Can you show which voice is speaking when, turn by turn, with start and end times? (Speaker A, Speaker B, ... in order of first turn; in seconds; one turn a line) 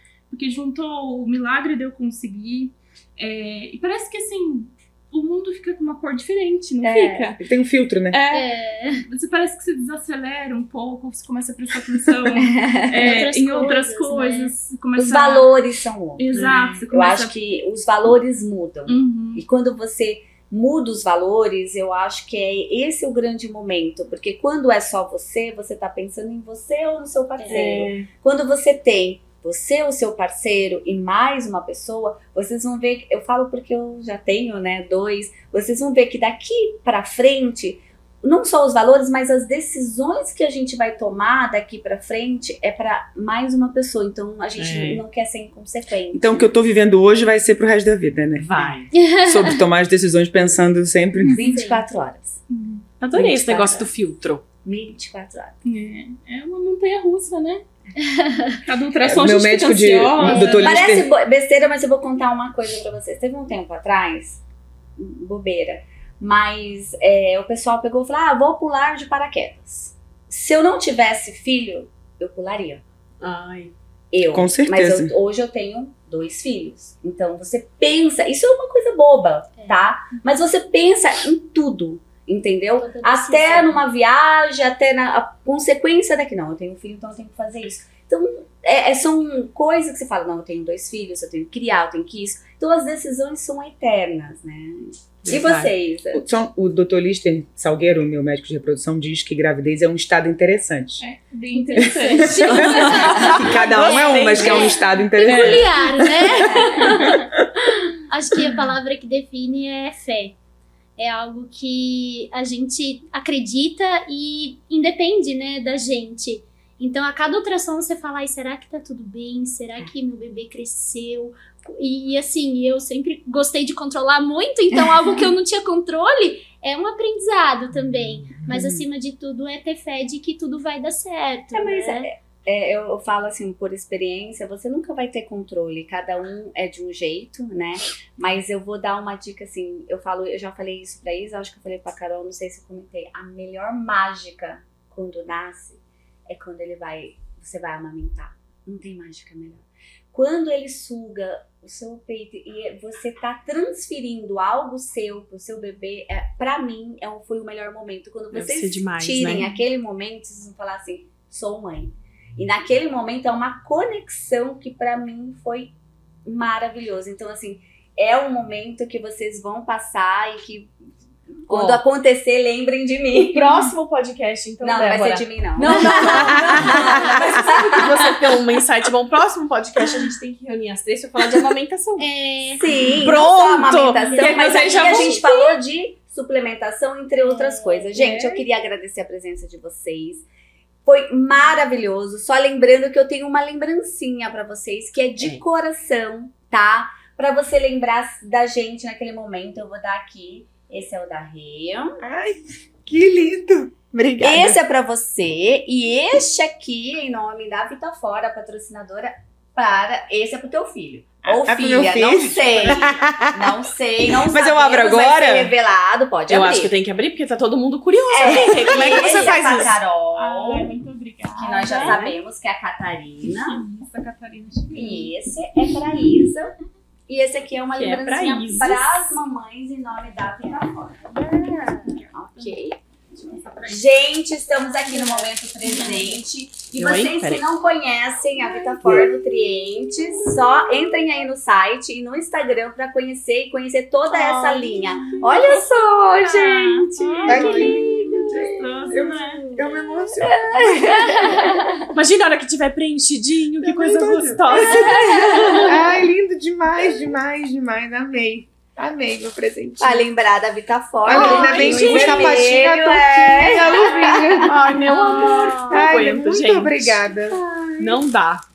Speaker A: 0.3-7.4
Speaker B: 6.8-7.3
Speaker C: 7.4-8.2
Speaker A: 8.1-8.5
Speaker D: 8.3-9.1
Speaker A: 9.1-15.6
Speaker B: 12.3-13.2
Speaker D: 12.9-14.5
Speaker B: 15.0-46.5
Speaker A: 16.2-17.4
Speaker E: 16.3-16.9
Speaker A: 18.9-19.4
Speaker E: 27.5-28.1
Speaker E: 44.6-45.0
Speaker C: 46.1-51.4
Speaker E: 48.4-48.9
Speaker D: 48.9-49.6
Speaker A: 51.2-51.6
Speaker B: 51.3-52.4
Speaker D: 51.4-51.8
Speaker A: 52.5-52.9
Speaker E: 53.0-54.4
Speaker B: 53.1-53.9
Speaker B: 54.6-55.6
Speaker A: 55.6-57.6
Speaker D: 58.0-58.6
Speaker A: 58.6-60.8
Speaker C: 59.0-61.1
Speaker D: 60.2-60.7
Speaker B: 60.6-64.4
Speaker B: 65.0-72.8
Speaker E: 73.2-73.7
Speaker B: 74.1-96.2
Speaker C: 74.3-75.1
Speaker D: 82.8-83.8
Speaker E: 95.2-95.7
Speaker C: 96.1-101.0
Speaker A: 101.0-103.4
Speaker B: 101.5-103.3
Speaker C: 101.8-107.3
Speaker E: 102.5-106.0
Speaker D: 102.5-103.2
Speaker D: 103.7-107.3
Speaker B: 106.4-107.0
Speaker D: 107.9-110.3
Speaker D: 111.0-132.1
Speaker C: 128.5-128.8
Speaker B: 131.5-165.7
Speaker E: 158.3-159.5
Speaker B: 166.2-170.8
Speaker B: 171.4-173.7
Speaker E: 171.5-171.8
Speaker E: 173.2-182.1
Speaker B: 174.6-178.1
Speaker C: 176.1-177.3
Speaker D: 182.0-182.7
Speaker B: 182.6-190.2
Speaker E: 183.0-185.2
Speaker D: 183.9-185.6
Speaker D: 187.2-188.3
Speaker B: 190.9-202.0
Speaker C: 202.0-204.6
Speaker B: 204.2-216.7
Speaker C: 211.2-213.6
Speaker C: 214.2-215.5
Speaker E: 216.3-219.8
Speaker B: 218.1-220.7
Speaker C: 218.2-218.7
Speaker A: 220.2-222.0
Speaker B: 221.4-223.6
Speaker E: 221.8-222.2
Speaker A: 223.4-225.1
Speaker B: 224.7-226.6
Speaker B: 227.1-232.8
Speaker E: 227.8-229.2
Speaker A: 231.2-234.1
Speaker B: 233.7-248.6
Speaker A: 234.7-236.2
Speaker E: 236.8-237.4
Speaker C: 238.8-239.1
Speaker A: 244.2-249.7
Speaker C: 247.3-251.4
Speaker B: 250.2-251.9
Speaker E: 251.9-255.7
Speaker C: 253.6-260.1
Speaker B: 254.6-255.7
Speaker B: 259.8-264.6
Speaker C: 261.1-264.7
Speaker E: 261.1-262.5
Speaker A: 261.2-262.0
Speaker E: 263.9-267.0
Speaker D: 264.8-265.8
Speaker C: 265.7-267.4
Speaker B: 267.5-267.9
Speaker E: 267.8-268.4